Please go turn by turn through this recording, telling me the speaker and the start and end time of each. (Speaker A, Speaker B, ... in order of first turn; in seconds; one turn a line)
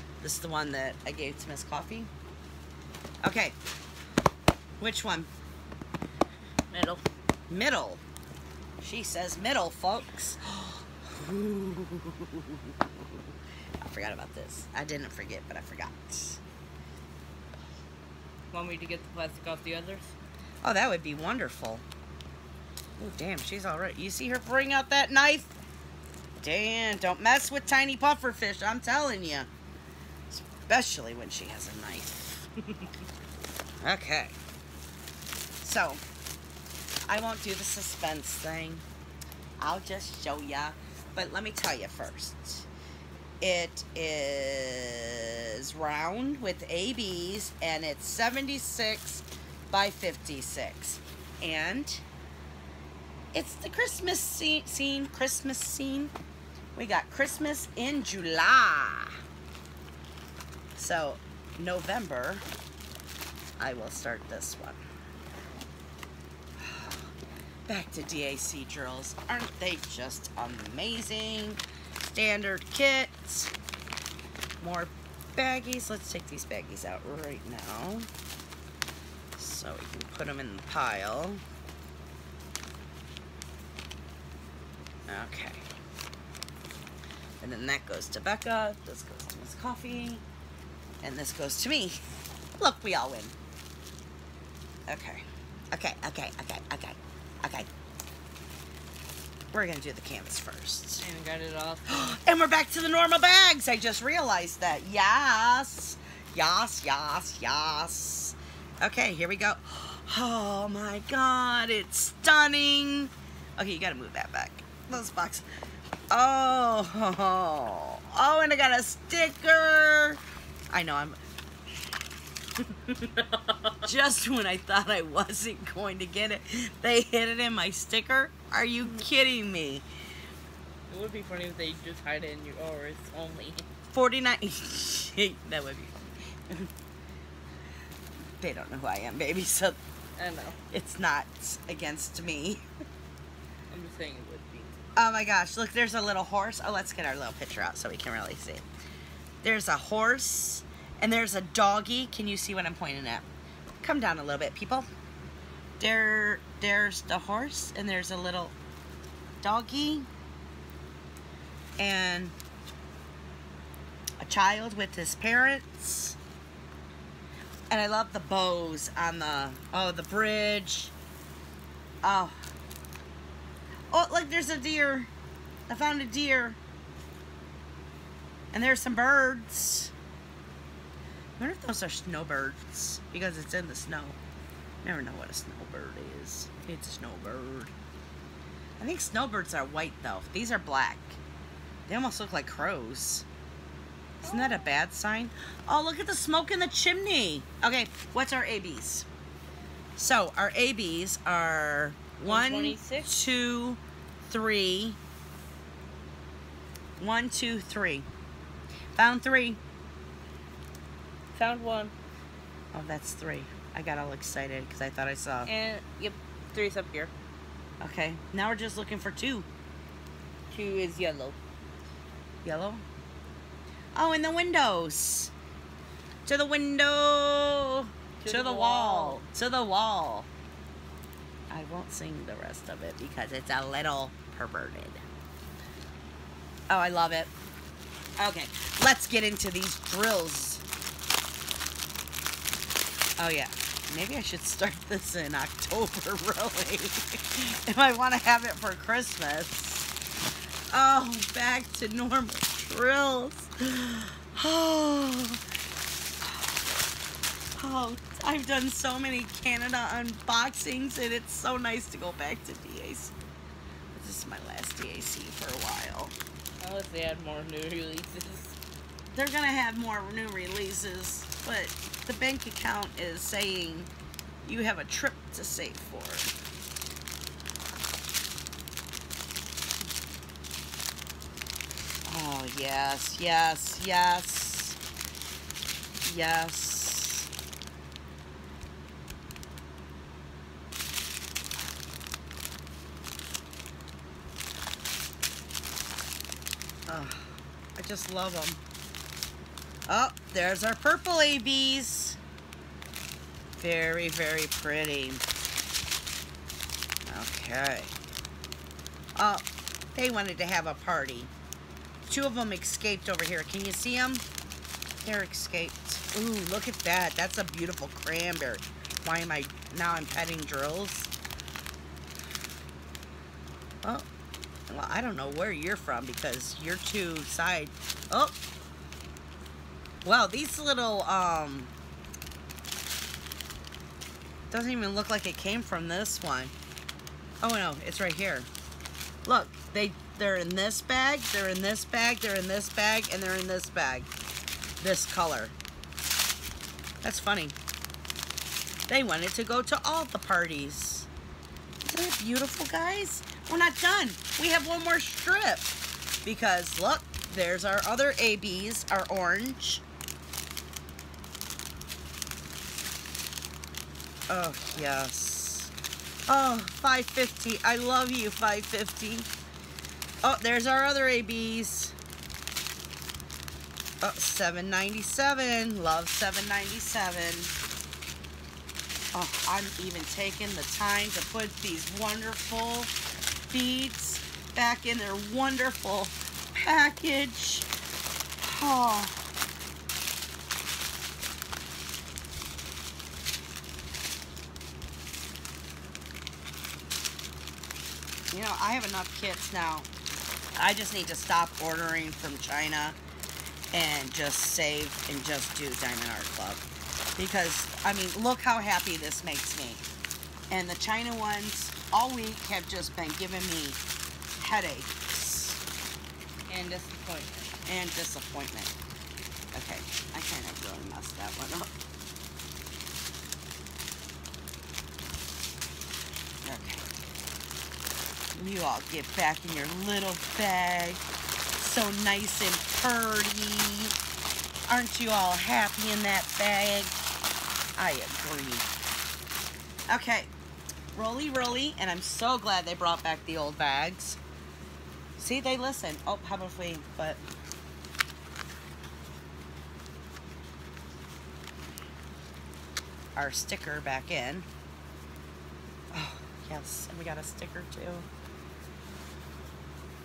Speaker A: 0.2-2.1
Speaker A: 3.2-3.6
Speaker A: 4.8-5.3
Speaker B: 6.7-7.0
Speaker A: 7.5-8.0
Speaker A: 8.8-13.2
Speaker A: 13.8-16.4
Speaker B: 18.5-20.1
Speaker A: 20.6-21.8
Speaker A: 23.0-25.5
Speaker A: 26.4-29.5
Speaker A: 30.3-32.5
Speaker A: 33.8-34.4
Speaker A: 35.6-36.0
Speaker A: 37.1-38.8
Speaker A: 39.6-42.7
Speaker A: 43.4-52.0
Speaker A: 53.3-56.1
Speaker A: 56.7-59.2
Speaker A: 60.8-62.4
Speaker A: 63.6-64.8
Speaker A: 66.6-67.1
Speaker A: 67.7-73.5
Speaker A: 74.6-78.1
Speaker A: 79.3-81.4
Speaker A: 85.1-85.6
Speaker A: 87.4-90.2
Speaker A: 91.0-92.0
Speaker A: 92.6-93.3
Speaker A: 94.9-97.7
Speaker A: 99.5-101.0
Speaker B: 101.0-102.2
Speaker A: 101.9-115.4
Speaker A: 116.1-121.2
Speaker B: 122.7-123.8
Speaker A: 123.8-129.8
Speaker B: 130.9-133.7
Speaker A: 133.9-136.7
Speaker A: 138.4-139.8
Speaker B: 140.2-140.6
Speaker A: 140.7-142.7
Speaker B: 143.7-144.8
Speaker A: 144.9-148.6
Speaker A: 149.4-153.2
Speaker A: 153.8-154.9
Speaker A: 155.8-158.5
Speaker A: 159.4-160.1
Speaker A: 161.8-162.3
Speaker A: 164.2-166.2
Speaker A: 167.7-170.9
Speaker A: 172.0-172.4
Speaker A: 173.9-175.1
Speaker A: 175.7-176.6
Speaker A: 178.5-179.9
Speaker A: 181.4-184.2
Speaker A: 184.8-187.7
Speaker A: 188.8-191.2
Speaker A: 191.9-193.2
Speaker B: 194.2-194.7
Speaker A: 194.2-199.1
Speaker A: 199.9-205.0
Speaker B: 202.2-203.2
Speaker A: 207.0-208.1
Speaker A: 208.9-209.6
Speaker B: 211.3-211.9
Speaker A: 212.7-215.5
Speaker B: 215.4-217.1
Speaker A: 217.8-219.5
Speaker B: 220.5-221.4
Speaker A: 222.4-222.8
Speaker A: 223.9-225.3
Speaker A: 226.2-230.3
Speaker B: 228.2-229.2
Speaker A: 231.5-235.0
Speaker A: 236.7-237.3
Speaker A: 238.2-240.6
Speaker A: 243.2-249.9
Speaker A: 250.7-255.4
Speaker A: 256.2-256.7
Speaker A: 257.6-263.1
Speaker A: 263.9-266.1
Speaker B: 266.6-268.6
Speaker A: 269.1-273.9
Speaker A: 274.4-276.3
Speaker A: 282.1-284.8
Speaker A: 286.0-287.3
Speaker A: 296.9-298.6
Speaker A: 299.9-302.2
Speaker A: 303.6-305.2
Speaker A: 307.0-307.9
Speaker A: 309.1-309.4
Speaker A: 309.9-311.3
Speaker A: 312.1-314.2
Speaker A: 315.0-321.1
Speaker A: 324.7-328.3
Speaker A: 330.0-331.7
Speaker A: 334.5-336.5
Speaker A: 337.4-338.5
Speaker A: 339.2-344.1
Speaker A: 344.8-345.5
Speaker A: 347.0-347.6
Speaker A: 348.9-351.1
Speaker A: 351.8-355.7
Speaker A: 356.2-359.8
Speaker A: 364.3-365.7
Speaker A: 366.3-369.3
Speaker A: 370.2-371.9
Speaker A: 374.0-377.5
Speaker A: 379.1-382.9
Speaker A: 383.5-387.7
Speaker A: 388.4-389.2
Speaker A: 398.3-399.9
Speaker A: 400.6-403.0
Speaker A: 403.7-406.6
Speaker A: 407.2-409.8
Speaker A: 410.5-413.8
Speaker A: 414.4-415.6
Speaker B: 416.5-417.5
Speaker A: 417.6-418.7
Speaker A: 419.5-421.7
Speaker A: 426.4-426.9
Speaker A: 428.3-431.0
Speaker A: 431.6-433.9
Speaker A: 434.7-436.9
Speaker A: 437.8-438.7
Speaker A: 439.9-440.3
Speaker A: 440.9-444.2
Speaker A: 445.2-447.2
Speaker A: 453.1-454.5
Speaker A: 455.9-458.1